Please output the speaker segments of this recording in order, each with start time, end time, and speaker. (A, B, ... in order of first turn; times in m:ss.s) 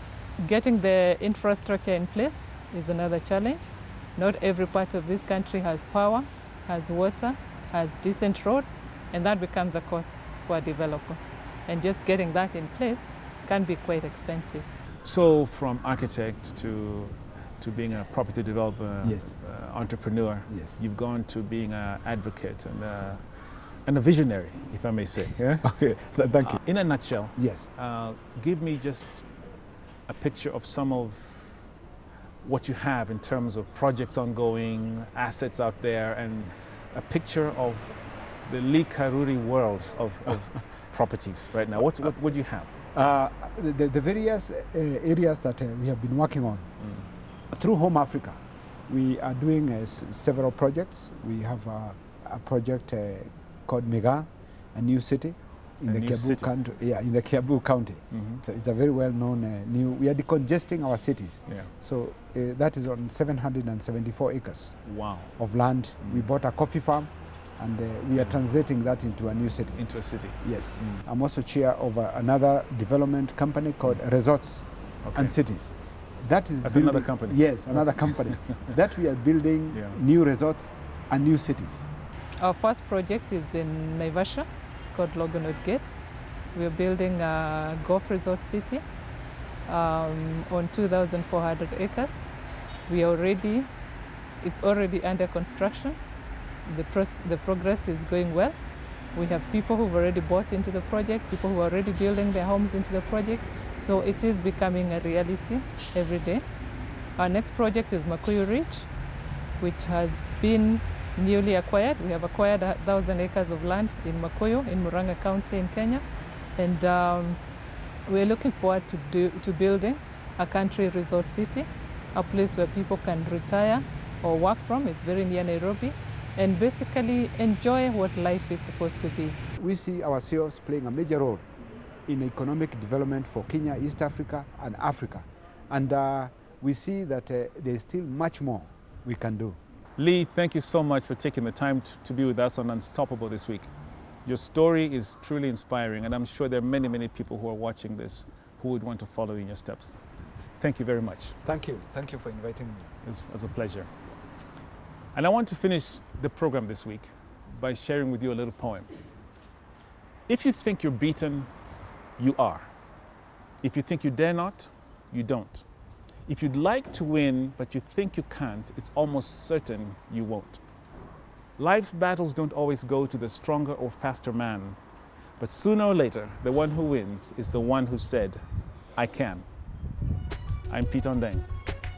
0:00.4-0:14.7 A
0:15.0-0:23.3 B
0:19.0-0:19.4 C
0:20.5-0:20.8 C
0:23.8-0:25.6 B
0:25.6-0:26.6 C
0:26.4-0:29.3 B
0:27.3-0:27.7 C
0:30.1-0:31.7 B
0:32.4-0:42.7 B
0:42.9-0:46.7 C
0:46.8-0:47.1 B
0:47.5-1:04.8 C
0:55.8-0:56.5 B
0:58.1-0:58.4 B
1:04.9-1:05.3 B
1:05.4-1:21.9 C
1:09.8-1:11.0 B
1:15.0-1:15.4 B
1:16.6-1:18.7 B
1:19.7-1:20.0 B
1:22.4-1:26.0 A
1:26.5-1:28.8 A
1:29.7-1:32.3 A
1:32.9-1:33.7 A
1:34.4-1:36.0 A
1:36.6-1:38.6 A
1:39.1-1:46.4 A
1:47.2-1:48.9 A
1:49.6-1:56.0 A
1:56.6-1:57.4 A
1:58.1-2:09.4 A
2:09.6-2:11.5 C
2:12.1-2:19.6 C
2:20.0-2:23.7 B
2:24.2-2:30.0 B
2:30.6-2:31.4 B
2:31.4-2:32.9 C
2:33.0-2:33.9 B
2:35.1-2:38.9 B
2:40.3-2:41.5 B
2:42.2-2:42.7 B
2:43.6-2:45.6 B
2:46.3-2:50.6 B
2:51.6-2:54.8 B
2:55.4-2:58.4 B
2:59.0-2:59.4 B
3:00.7-3:01.5 B